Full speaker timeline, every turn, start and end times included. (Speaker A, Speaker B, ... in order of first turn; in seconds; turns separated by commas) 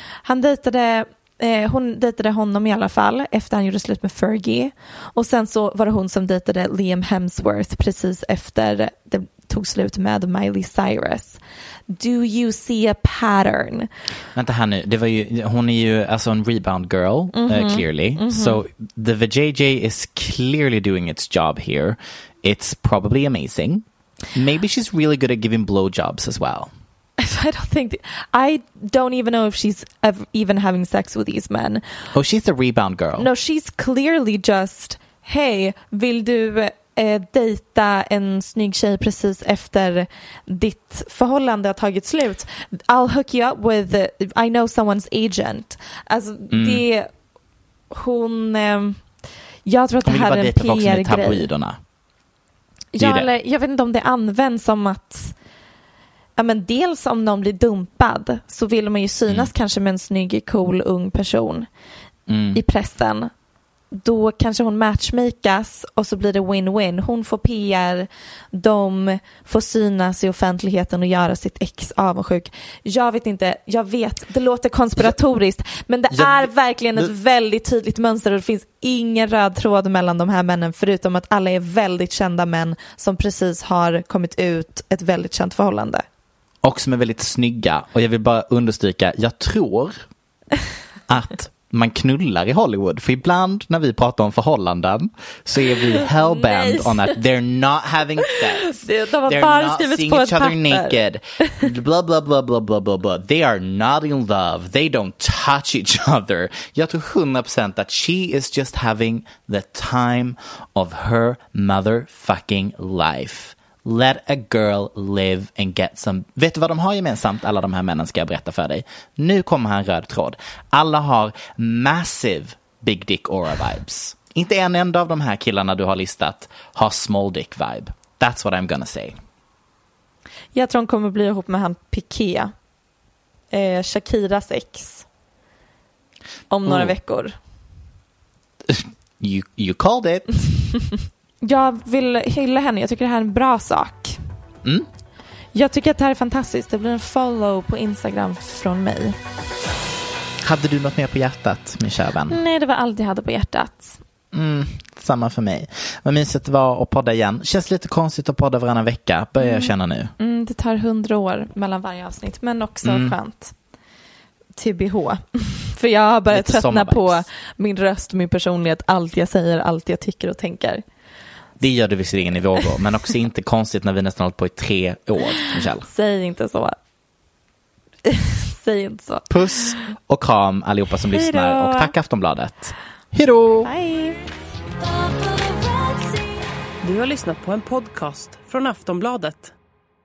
Speaker A: 0.2-13.9, Speaker B: 14.3-26.7, Speaker A: 17.3-18.6, Speaker A: 27.2-31.8, Speaker B: 32.1-33.3, Speaker A: 33.2-47.1, Speaker B: 46.5-46.8, Speaker A: 47.9-49.0, Speaker A: 49.6-51.5, Speaker B: 50.0-51.8, Speaker A: 52.9-55.3, Speaker B: 53.0-53.3, Speaker A: 56.4-61.7, Speaker B: 62.3-62.6, Speaker A: 62.5-63.3, Speaker A: 63.9-86.0, Speaker B: 76.1-77.1, Speaker B: 86.6-90.0, Speaker B: 91.1-98.7, Speaker A: 95.8-97.2, Speaker A: 98.2-101.6, Speaker B: 99.2-129.2, Speaker A: 130.5-132.5, Speaker A: 133.5-135.1, Speaker A: 136.5-137.3, Speaker B: 136.6-136.9, Speaker B: 138.7-140.3, Speaker A: 141.4-144.2, Speaker A: 145.5-149.2, Speaker B: 150.4-152.4, Speaker A: 152.3-154.0, Speaker B: 154.3-160.1, Speaker A: 159.4-163.5, Speaker B: 162.8-163.1, Speaker A: 164.6-170.8, Speaker B: 166.3-167.2, Speaker B: 171.6-175.9, Speaker A: 175.8-176.8, Speaker A: 178.1-179.7, Speaker B: 179.3-183.7, Speaker A: 181.1-181.9, Speaker A: 183.6-184.2, Speaker C: 186.8-189.5